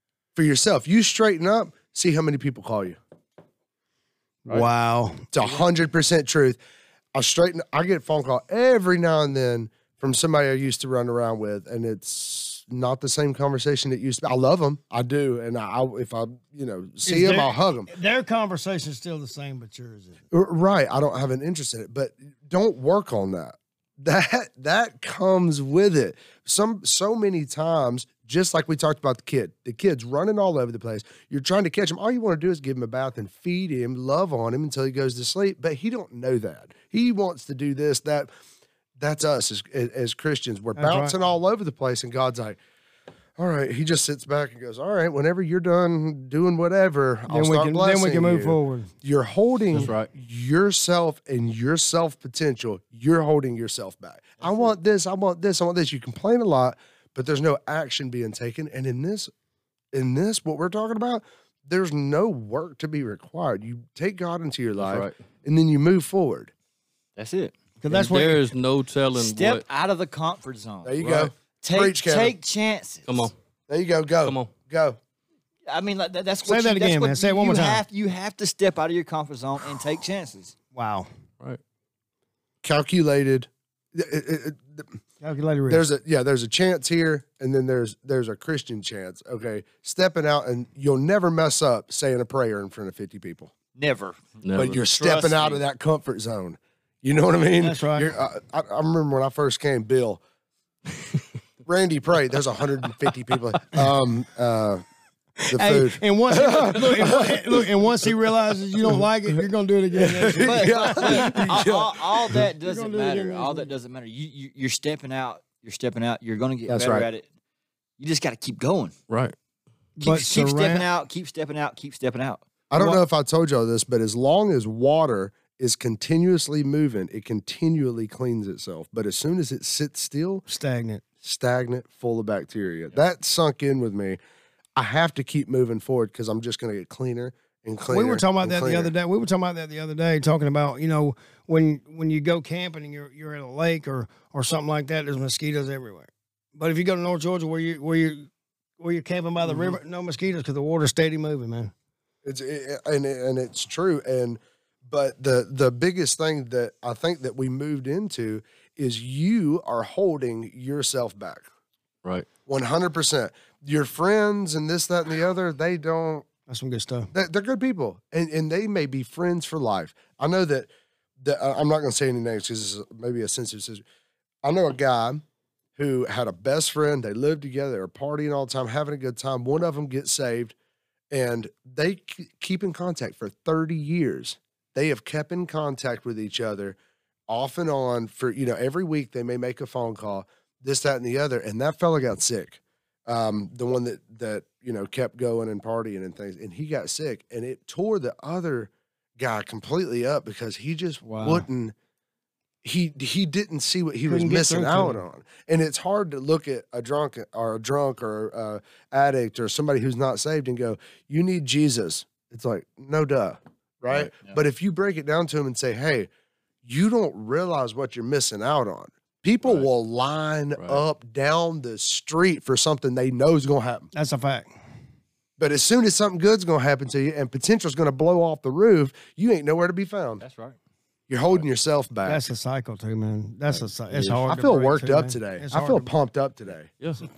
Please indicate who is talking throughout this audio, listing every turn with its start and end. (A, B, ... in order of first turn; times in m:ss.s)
0:00.4-0:03.0 A
0:04.5-0:05.3 B
0:05.3-0:06.6 A
0:07.1-0:17.9 A
0:17.0-0:20.2 B
0:20.3-0:38.3 A
0:39.0-0:42.6 A
0:40.8-0:41.1 B
0:43.4-0:59.3 A
0:47.3-0:48.9 B
0:49.7-0:50.1 C
0:54.4-0:54.7 D
0:59.9-1:06.5 A
1:04.8-1:05.1 C
1:07.2-1:07.5 D
1:07.8-1:08.4 B
1:07.9-1:09.6 C
1:09.2-1:10.9 D
1:10.8-1:12.3 A
1:11.0-1:11.3 C
1:11.6-1:13.3 D
1:13.0-1:13.3 C
1:13.7-1:15.0 A
1:14.2-1:14.5 C
1:15.7-1:20.5 D
1:16.4-1:17.8 B
1:20.7-1:21.1 B
1:22.6-1:24.9 A
1:25.2-1:25.8 B
1:25.7-1:33.5 A
1:33.7-1:35.6 D
1:34.4-1:34.8 C
1:34.5-1:40.2 A
1:37.6-1:38.1 B
1:41.6-1:44.8 A
1:45.4-1:51.7 B
1:45.5-1:52.5 A
1:50.4-1:57.3 D
1:52.6-1:53.7 B
1:56.7-1:57.1 A
1:58.0-1:58.9 D
1:59.1-1:59.3 C
2:00.0-2:00.9 B
2:00.0-2:02.4 D
2:02.7-2:10.4 A
2:02.7-2:03.0 B
2:10.5-2:11.0 B
2:11.2-2:14.2 A
2:14.8-2:18.9 A
2:17.9-2:31.7 B
2:32.2-2:41.5 A
2:42.4-2:46.3 A
2:46.5-2:47.1 B
2:47.1-2:50.7 A
2:51.2-2:53.8 A
2:54.4-2:55.2 A
2:55.8-3:00.5 A
3:01.1-3:06.8 A
3:07.3-3:21.7 A
3:21.0-3:21.4 B
3:22.6-3:36.1 A
3:24.1-3:25.0 B
3:34.1-3:34.4 D
3:36.6-3:43.9 A
3:40.6-3:40.8 C
3:43.9-3:44.5 B
3:45.4-3:50.2 A
3:50.2-3:50.6 D
3:51.1-3:52.2 A
3:52.0-3:55.9 B
3:53.9-3:56.7 A
3:56.8-3:57.0 C